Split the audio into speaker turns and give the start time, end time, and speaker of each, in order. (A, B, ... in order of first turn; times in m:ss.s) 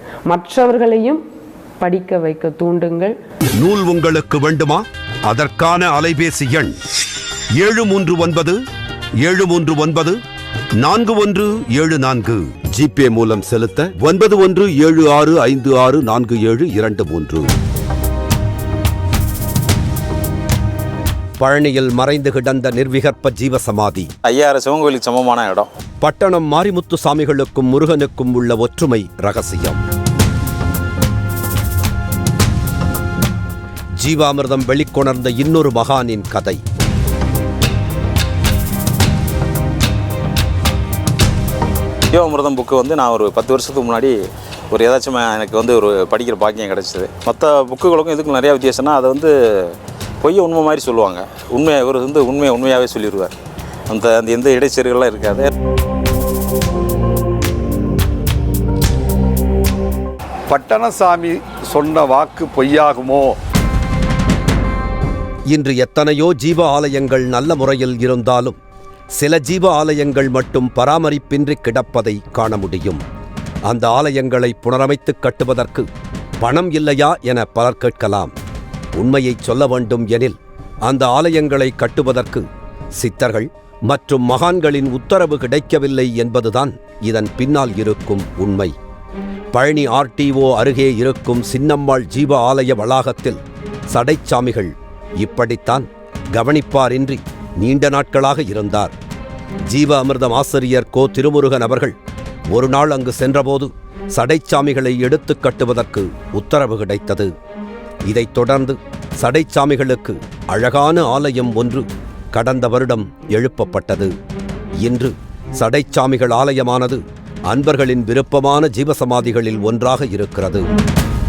0:00.3-0:01.2 A
0:01.8-0:03.2 A
0:03.6-0:06.8 B
0:07.6-0:08.6 B
0:09.2-0:10.2 B
0:10.8-0:17.5 B
0:21.4-0:24.1 B
0:24.2-0:25.7 C
0:26.0-0:29.8 B
0:34.0-0:36.6 B
0:42.1-0:44.2 C
0:44.7-0:53.4 C
0:53.9-0:55.5 C
1:00.5-1:03.4 D
1:05.5-1:08.6 B
1:09.2-1:13.0 B
1:13.7-1:15.9 B
1:16.4-1:18.3 B
1:19.0-1:22.5 B
1:23.0-1:28.7 B
1:29.5-1:33.4 B
1:33.9-1:38.9 B
1:39.7-1:42.0 B
1:42.5-1:47.3 B
1:48.1-1:54.1 B
1:54.8-2:00.7 B